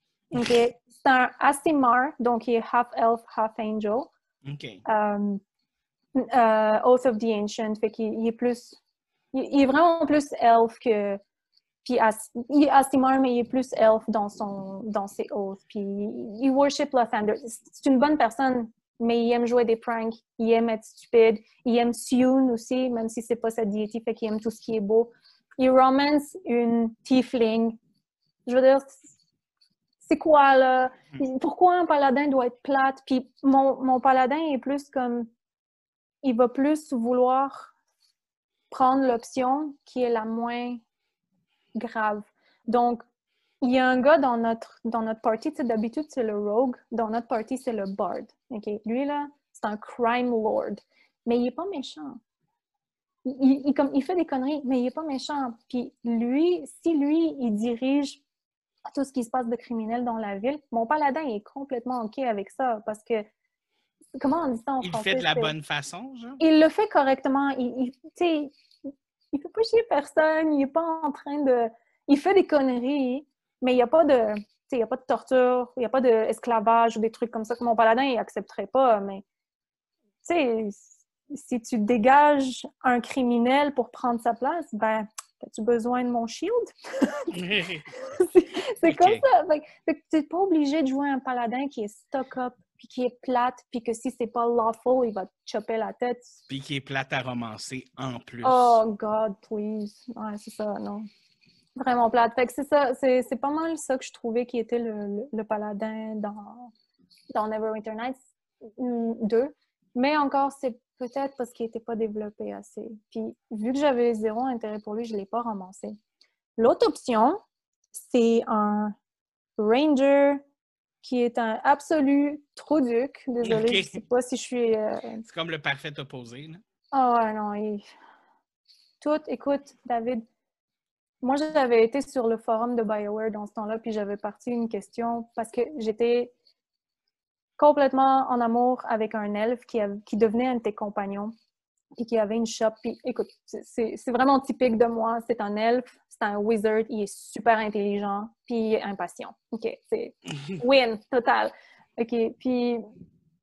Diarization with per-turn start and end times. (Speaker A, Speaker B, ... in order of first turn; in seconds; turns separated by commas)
Speaker A: 0.3-0.6, Speaker B: 0.3-4.1, Speaker A: 4.4-4.8, Speaker B: 4.8-5.4, Speaker B: 6.1-8.8, Speaker B: 9.3-11.2, Speaker B: 11.8-27.8, Speaker B: 28.4-29.1, Speaker B: 30.0-35.3, Speaker B: 36.2-37.7, Speaker B: 38.7-40.8, Speaker B: 41.8-43.0, Speaker B: 43.6-52.2, Speaker B: 53.2-58.2, Speaker B: 58.8-63.3, Speaker B: 64.1-65.5, Speaker A: 64.8-66.4, Speaker B: 66.4-68.5, Speaker B: 69.3-79.2, Speaker B: 80.2-87.3, Speaker A: 87.3-87.9, Speaker B: 88.0-96.3, Speaker A: 88.8-89.2, Speaker A: 96.5-98.8, Speaker B: 98.4-101.1, Speaker B: 101.8-106.7, Speaker B: 107.3-108.2, Speaker B: 108.8-116.0, Speaker B: 116.6-117.4, Speaker B: 117.9-118.9, Speaker B: 119.6-120.4, Speaker B: 121.0-125.2, Speaker A: 123.4-124.0, Speaker A: 125.2-126.6, Speaker B: 126.9-127.8, Speaker B: 129.0-130.2, Speaker B: 131.2-136.3, Speaker B: 137.6-141.3, Speaker B: 141.9-152.8